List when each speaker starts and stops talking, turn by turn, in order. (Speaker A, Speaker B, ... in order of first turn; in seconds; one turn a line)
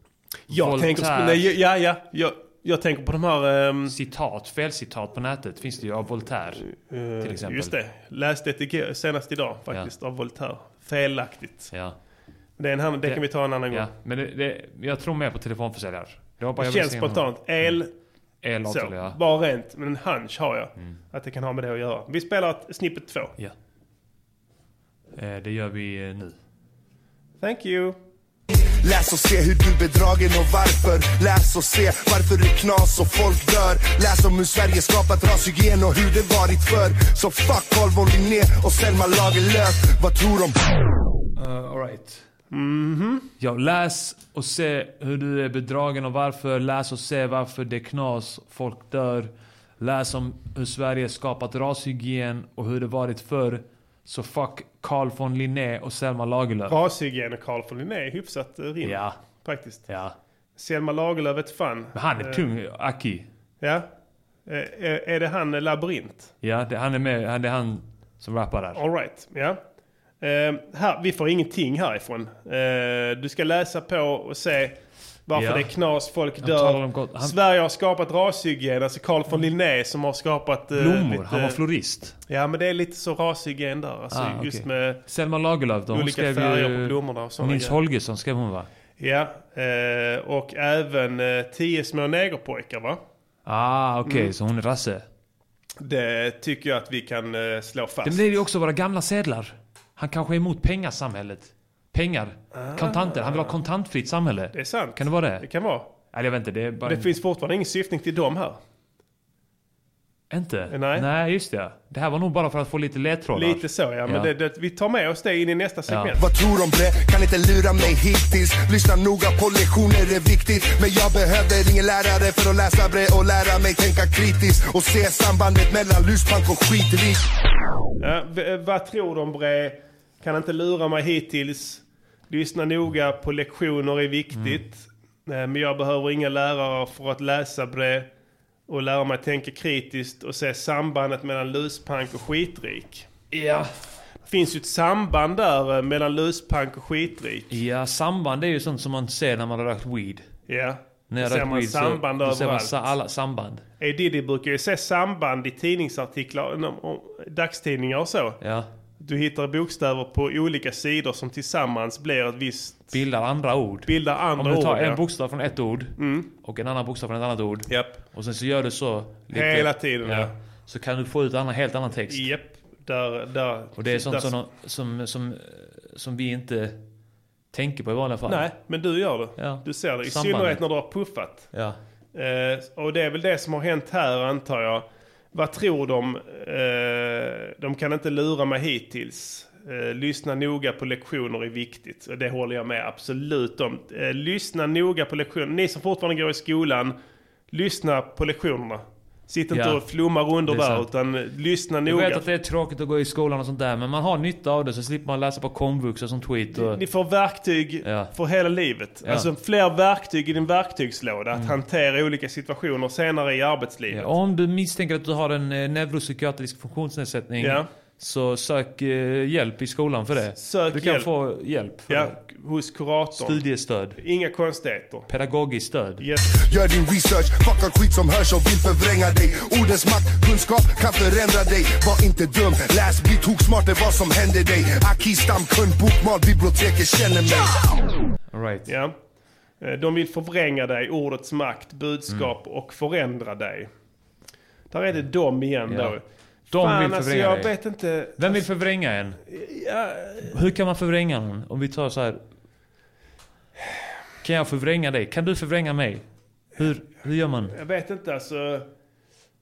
Speaker A: 0.5-3.9
Speaker B: 0.5-1.5
Speaker B: 3.9-6.7
Speaker A: 6.6-11.7
Speaker B: 7.2-7.7
Speaker B: 11.7-12.0
Speaker A: 12.6-13.9
Speaker B: 13.0-17.8
Speaker A: 16.6-17.9
Speaker B: 18.4-19.2
Speaker A: 18.6-23.4
Speaker B: 25.1-26.4
Speaker A: 27.4-28.0
Speaker C: 28.8-40.6
Speaker B: 41.4-42.2
Speaker A: 42.5-43.3
Speaker B: 43.4-56.7
Speaker A: 56.7-59.9
Speaker B: 58.8-59.2
Speaker B: 59.9-60.1
Speaker A: 60.6-62.4
Speaker B: 61.9-63.3
Speaker A: 63.6-63.9
Speaker A: 64.5-66.3
Speaker B: 66.4-68.8
Speaker A: 68.7-69.6
Speaker A: 70.2-81.6
Speaker B: 75.3-75.7
Speaker B: 76.4-77.3
Speaker B: 80.7-82.2
Speaker A: 82.3-85.0
Speaker B: 84.1-88.7
Speaker A: 85.9-87.8
Speaker A: 89.0-93.0
Speaker B: 93.5-95.0
Speaker A: 94.0-94.3
Speaker A: 95.8-98.2
Speaker B: 98.0-105.4
Speaker A: 102.5-103.5
Speaker A: 104.5-105.9
Speaker B: 106.1-107.1
Speaker A: 106.8-108.6
Speaker B: 110.3-114.3
Speaker A: 110.7-111.1
Speaker A: 113.3-116.2
Speaker B: 115.9-116.2
Speaker C: 116.2-127.2
Speaker A: 128.0-138.1
Speaker B: 134.3-134.6
Speaker A: 138.7-143.1
Speaker B: 143.3-143.7
Speaker A: 144.2-147.5
Speaker B: 147.5-150.3
Speaker A: 150.5-152.8
Speaker B: 151.1-153.6
Speaker A: 153.8-158.4
Speaker B: 158.4-158.7
Speaker A: 159.0-163.0
Speaker B: 162.9-172.2
Speaker A: 163.8-165.0
Speaker A: 166.0-166.3
Speaker A: 167.7-168.0
Speaker A: 169.3-170.3
Speaker A: 172.1-174.3
Speaker B: 173.8-176.8
Speaker B: 177.5-178.5
Speaker A: 178.2-181.5
Speaker B: 179.3-180.6
Speaker B: 181.5-181.8
Speaker A: 182.1-196.9
Speaker A: 197.5-202.2
Speaker B: 199.5-199.8
Speaker B: 200.4-200.8
Speaker B: 201.8-206.8
Speaker A: 206.5-214.1
Speaker B: 207.8-208.1
Speaker B: 213.9-222.2
Speaker A: 217.4-217.7
Speaker A: 220.3-221.1
Speaker A: 221.9-223.4
Speaker B: 223.1-224.0
Speaker A: 224.0-225.1
Speaker B: 225.1-226.0
Speaker A: 226.0-226.4
Speaker C: 226.4-237.6
Speaker B: 238.3-238.7
Speaker A: 238.7-238.9
Speaker A: 239.6-243.7
Speaker A: 244.7-246.0
Speaker B: 245.7-246.0
Speaker B: 246.5-247.5
Speaker A: 246.5-248.5
Speaker B: 248.2-249.2
Speaker A: 249.3-250.3
Speaker B: 250.2-252.2
Speaker B: 254.2-256.0
Speaker B: 256.6-257.5
Speaker A: 257.5-258.7